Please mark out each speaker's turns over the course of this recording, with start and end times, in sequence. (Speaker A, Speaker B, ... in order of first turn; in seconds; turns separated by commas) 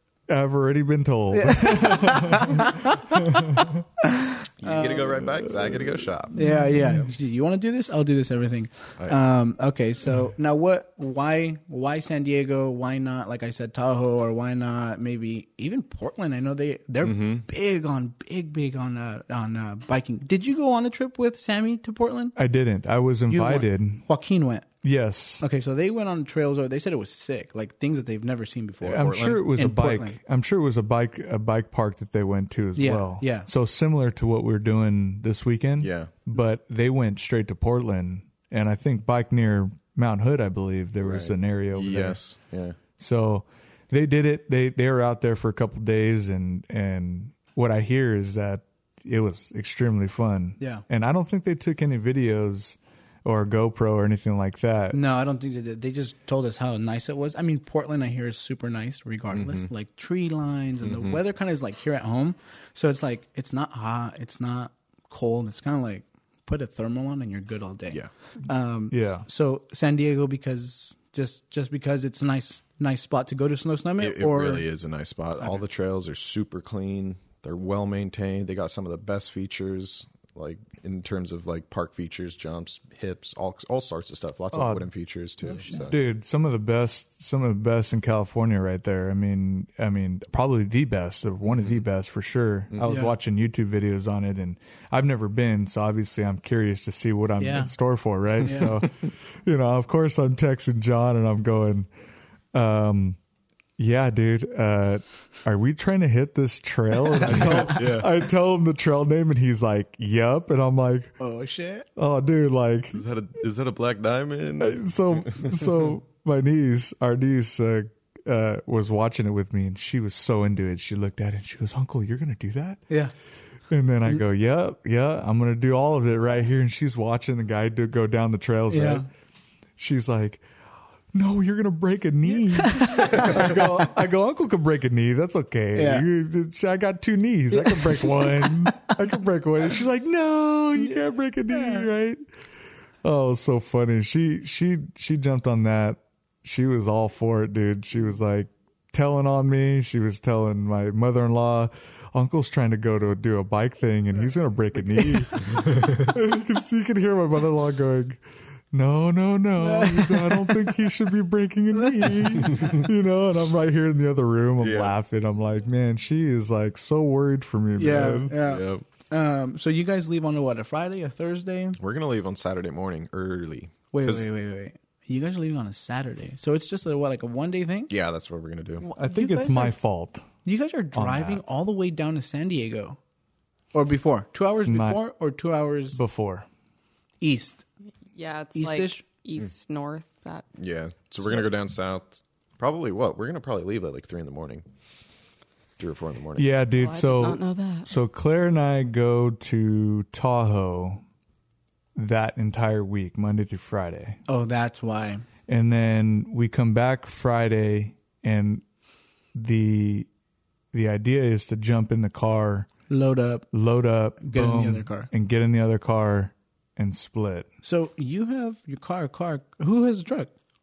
Speaker A: 0.3-3.8, Speaker B: 1.3-5.2, Speaker C: 4.6-6.4, Speaker A: 5.6-5.9, Speaker B: 6.3-22.4, Speaker C: 17.0-17.4, Speaker A: 22.4-24.1, Speaker B: 23.3-24.7, Speaker A: 24.8-25.4, Speaker B: 25.4-30.2, Speaker C: 28.8-29.4, Speaker A: 28.8-42.2, Speaker B: 32.8-33.5, Speaker C: 35.8-36.1, Speaker C: 41.0-42.8, Speaker A: 43.0-55.0, Speaker B: 50.6-50.8, Speaker B: 54.9-74.7, Speaker C: 59.3-59.7, Speaker C: 60.8-61.2, Speaker A: 68.9-69.2, Speaker C: 74.0-86.0, Speaker A: 84.5-84.9, Speaker B: 85.5-85.8, Speaker A: 85.7-101.9, Speaker C: 91.5-91.8, Speaker B: 92.8-93.1, Speaker B: 97.4-97.7, Speaker B: 98.4-98.7, Speaker A: 102.5-103.2, Speaker A: 103.8-111.2, Speaker C: 107.2-108.1, Speaker B: 111.2-111.9, Speaker A: 112.0-113.0, Speaker C: 112.9-115.7, Speaker A: 114.6-122.8, Speaker A: 123.7-129.1, Speaker B: 128.7-129.1, Speaker A: 129.8-130.4, Speaker A: 131.1-142.2, Speaker B: 132.6-133.6, Speaker B: 135.7-136.1, Speaker B: 137.6-138.7, Speaker B: 140.8-141.9, Speaker A: 143.0-158.2, Speaker A: 158.7-168.4, Speaker B: 159.6-160.7, Speaker C: 164.6-164.9, Speaker B: 167.8-171.8, Speaker C: 168.4-168.8, Speaker C: 171.8-174.3, Speaker B: 173.9-177.9, Speaker C: 177.9-178.9, Speaker B: 178.8-179.8, Speaker A: 178.9-180.2, Speaker B: 180.4-183.0, Speaker A: 180.9-181.4, Speaker B: 183.7-186.0, Speaker A: 184.6-185.0, Speaker A: 185.9-186.4, Speaker B: 187.2-187.6, Speaker D: 188.1-190.5, Speaker B: 188.6-189.0, Speaker C: 190.6-194.6, Speaker C: 195.8-196.6, Speaker A: 196.4-201.0, Speaker D: 196.8-197.9, Speaker A: 201.9-204.2, Speaker B: 204.3-205.2, Speaker A: 205.5-208.6, Speaker A: 209.3-210.1, Speaker A: 210.7-212.7, Speaker B: 212.9-213.5, Speaker A: 213.5-217.5, Speaker B: 214.2-215.1, Speaker B: 217.6-220.3